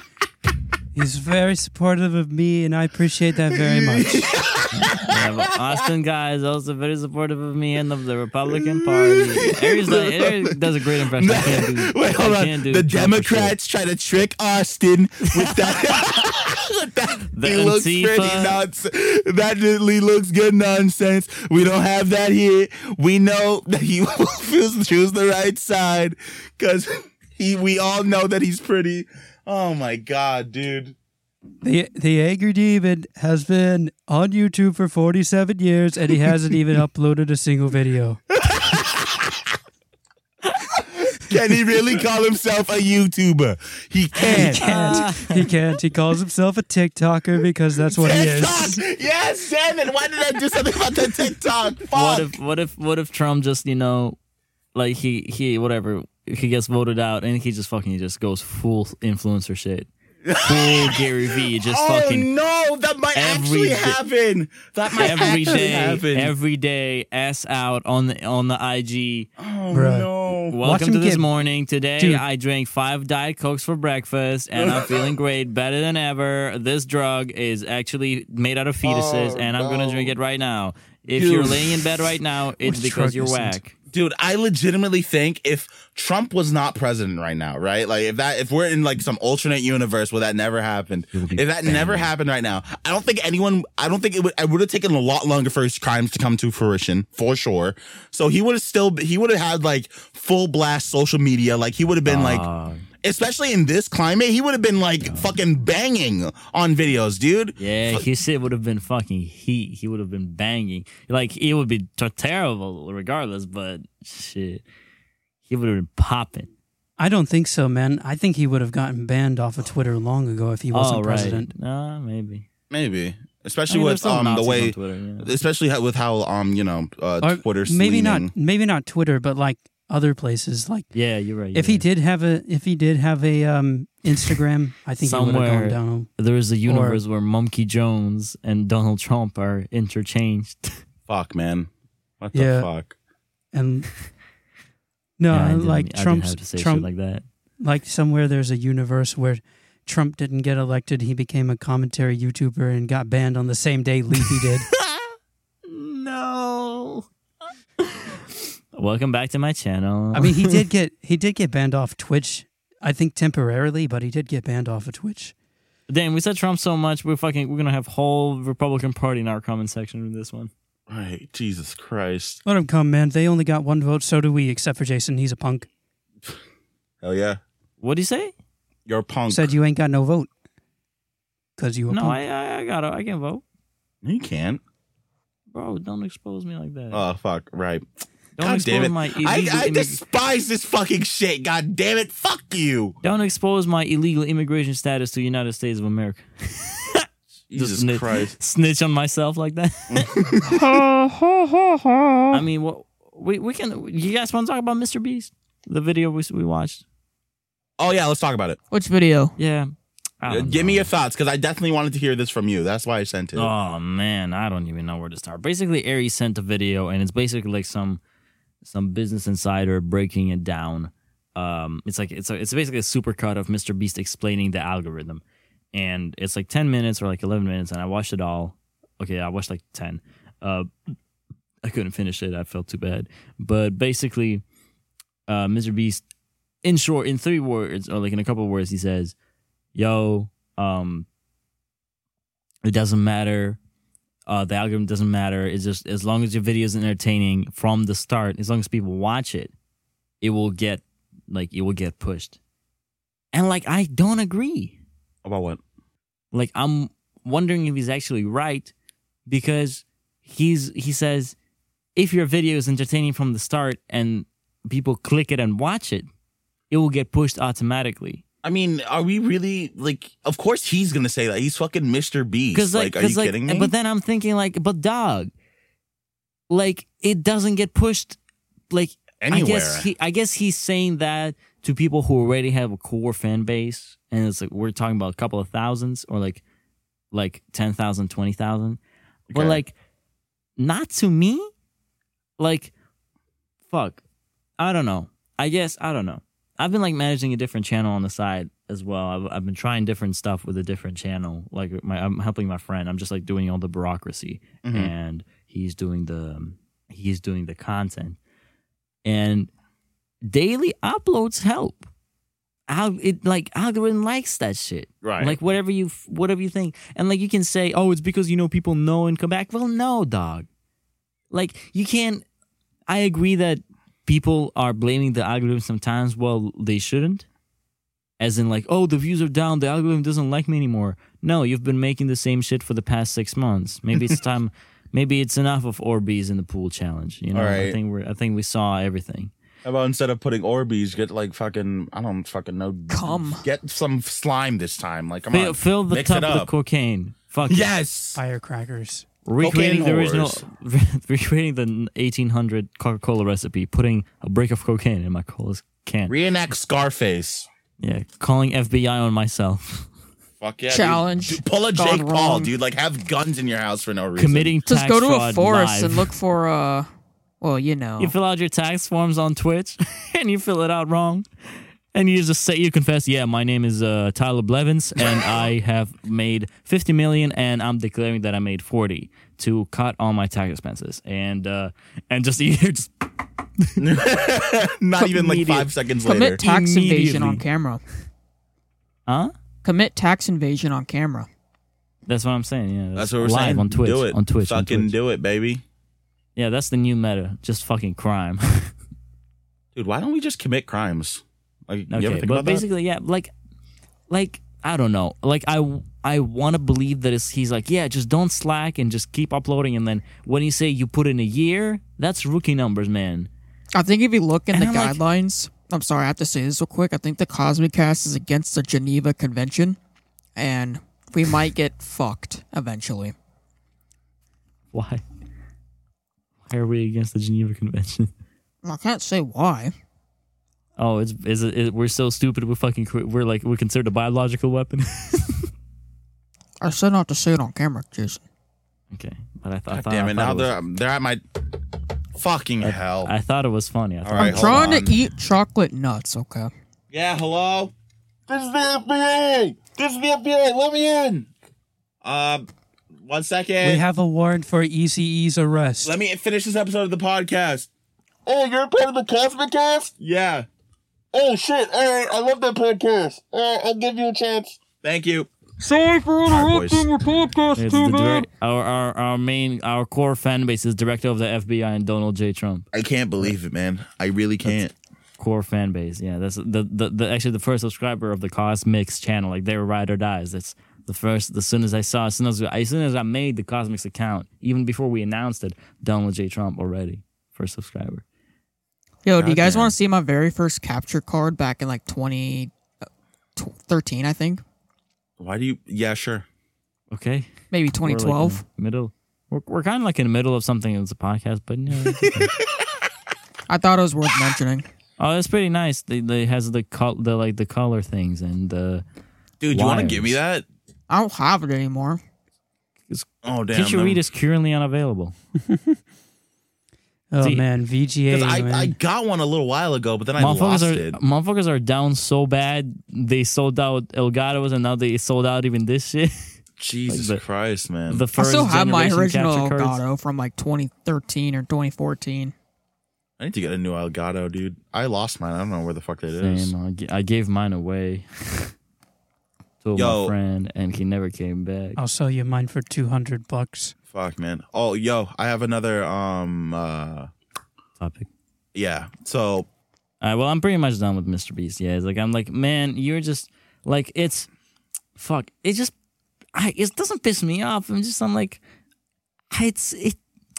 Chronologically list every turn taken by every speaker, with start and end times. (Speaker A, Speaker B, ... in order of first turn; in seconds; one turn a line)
Speaker A: 0.9-4.3
Speaker B: 3.5-5.8
Speaker C: 4.7-13.5
Speaker B: 8.5-10.6
Speaker B: 11.1-30.9
Speaker C: 15.3-15.8
Speaker C: 17.4-18.6
Speaker A: 31.6-38.2
Speaker B: 38.3-39.5
Speaker B: 40.7-45.1
Speaker A: 44.2-48.8
Speaker C: 44.2-45.5
Speaker B: 47.9-52.3
Speaker C: 51.9-54.1
Speaker C: 54.7-62.3
Speaker B: 60.2-66.3
Speaker C: 63.1-64.0
Speaker C: 65.0-69.3
Speaker A: 65.2-65.5
Speaker B: 69.4-70.6
Speaker A: 69.7-70.1
Speaker C: 70.5-83.7
Speaker A: 70.6-71.2
Speaker B: 74.5-75.1
Speaker B: 78.8-80.1
Speaker B: 81.1-81.9
Speaker A: 82.6-83.6
Speaker B: 83.9-102.4
Speaker C: 91.1-92.1
Speaker C: 102.0-102.8
Speaker B: 103.0-108.0
Speaker C: 105.0-105.3
Speaker C: 107.6-114.6
Speaker C: 115.5-116.5
Speaker A: 117.0-121.5
Speaker C: 120.7-122.5
Speaker B: 122.7-128.3
Speaker C: 123.7-125.3
Speaker A: 127.2-130.9
Speaker C: 130.9-131.8
Speaker A: 131.5-136.1
Speaker C: 135.0-140.8
Speaker A: 136.7-137.0
Speaker B: 141.1-141.7
Speaker B: 142.2-142.9
Speaker A: 142.3-142.7
Speaker A: 143.5-143.9
Speaker A: 145.2-146.9
Speaker C: 145.3-147.2
Speaker A: 147.6-154.7
Speaker C: 154.4-155.1
Speaker C: 155.7-157.1
Speaker C: 157.8-160.6
Speaker A: 160.1-165.3
Speaker C: 165.9-170.5
Speaker B: 170.9-172.4
Speaker A: 172.4-175.7
Speaker B: 177.0-177.4
Speaker C: 177.8-178.3
Speaker B: 178.8-179.5
Speaker A: 179.3-180.3
Speaker A: 181.6-182.2
Speaker C: 181.9-183.4
Speaker B: 184.0-184.6
Speaker C: 185.5-187.0
Speaker B: 186.9-187.8
Speaker C: 188.4-190.0
Speaker B: 188.4-192.9
Speaker C: 193.0-200.8
Speaker B: 197.5-198.3
Speaker B: 199.9-200.6
Speaker D: 200.5-202.3
Speaker C: 202.3-206.8
Speaker B: 207.8-208.6
Speaker D: 208.7-209.3
Speaker C: 209.4-210.9
Speaker B: 210.3-213.5
Speaker C: 213.3-218.0
Speaker C: 218.6-225.2
Speaker C: 225.7-230.7
Speaker C: 231.6-234.4
Speaker C: 235.3-236.0
Speaker C: 236.6-239.1
Speaker C: 239.7-241.1
Speaker C: 242.6-243.6
Speaker C: 244.3-249.5
Speaker C: 250.2-252.4
Speaker C: 253.3-254.8
Speaker B: 255.2-255.6
Speaker C: 256.3-258.7
Speaker C: 259.3-261.3
Speaker C: 261.9-266.1
Speaker C: 266.7-268.2
Speaker B: 268.4-273.7
Speaker C: 272.5-275.3
Speaker C: 276.5-278.2
Speaker C: 278.7-286.4
Speaker B: 279.2-279.9
Speaker C: 287.1-288.8
Speaker B: 289.3-289.6
Speaker C: 289.3-289.7
Speaker C: 290.6-291.5
Speaker C: 292.4-292.7
Speaker C: 293.7-294.0
Speaker C: 294.6-308.2
Speaker B: 304.6-304.9
Speaker C: 309.0-309.5
Speaker C: 310.3-311.8
Speaker C: 312.7-320.4
Speaker B: 315.0-315.4
Speaker C: 321.3-322.2
Speaker C: 322.9-327.2
Speaker C: 328.2-339.3
Speaker B: 337.3-337.8
Speaker B: 339.6-346.5
Speaker D: 342.9-343.4
Speaker C: 345.3-347.7
Speaker B: 347.4-348.2
Speaker A: 348.1-349.1
Speaker C: 349.2-356.1
Speaker B: 349.4-350.4
Speaker B: 356.1-357.5
Speaker C: 357.8-359.9
Speaker B: 360.4-364.6
Speaker D: 360.7-362.5
Speaker C: 364.1-366.1
Speaker D: 364.7-366.9
Speaker D: 367.4-368.1
Speaker C: 368.0-371.2
Speaker C: 371.9-383.1
Speaker B: 383.8-386.4
Speaker D: 385.0-387.8
Speaker C: 386.4-387.4
Speaker C: 389.1-389.3
Speaker D: 389.6-391.3
Speaker C: 392.1-394.9
Speaker B: 392.9-395.6
Speaker C: 396.4-398.7
Speaker B: 399.7-402.6
Speaker C: 401.9-403.3
Speaker C: 404.1-413.3
Speaker D: 413.7-419.8
Speaker C: 414.5-415.0
Speaker D: 420.4-423.1
Speaker C: 424.7-425.0
Speaker C: 426.5-428.1
Speaker D: 428.6-429.7
Speaker C: 430.8-435.5
Speaker D: 436.6-438.2
Speaker C: 438.9-440.5
Speaker B: 439.7-441.2
Speaker B: 442.2-443.1
Speaker C: 442.6-444.8
Speaker B: 444.0-444.9
Speaker D: 444.2-446.5
Speaker B: 446.9-447.7
Speaker B: 448.3-451.3
Speaker B: 452.0-452.4
Speaker B: 453.1-453.8
Speaker A: 453.6-455.9
Speaker B: 455.8-457.7
Speaker B: 458.2-460.5
Speaker B: 461.1-467.8
Speaker D: 465.7-467.2
Speaker C: 467.6-472.7
Speaker D: 467.8-468.2
Speaker B: 472.7-474.7
Speaker C: 475.2-488.0
Speaker D: 489.1-492.5
Speaker B: 489.2-489.7
Speaker D: 493.4-494.4
Speaker B: 495.2-496.2
Speaker C: 496.9-497.3
Speaker D: 497.5-498.4
Speaker C: 497.8-502.3
Speaker B: 502.0-502.5
Speaker D: 503.5-504.7
Speaker C: 505.0-508.8
Speaker B: 509.4-510.4
Speaker C: 509.5-510.2
Speaker D: 510.9-512.0
Speaker C: 512.9-515.1
Speaker B: 513.2-514.0
Speaker A: 515.5-515.8
Speaker A: 517.1-518.7
Speaker C: 517.2-517.5
Speaker B: 518.1-521.0
Speaker C: 520.2-526.3
Speaker B: 526.6-528.0
Speaker C: 526.9-527.2
Speaker C: 527.9-529.8
Speaker D: 528.2-532.3
Speaker B: 533.2-536.5
Speaker C: 536.1-538.5
Speaker C: 539.6-541.8
Speaker B: 539.7-540.1
Speaker A: 541.8-543.7
Speaker B: 543.9-547.1
Speaker C: 547.8-548.1
Speaker B: 548.5-549.5
Speaker C: 550.0-554.3
Speaker C: 555.0-555.7
Speaker C: 556.3-558.4
Speaker C: 559.3-560.0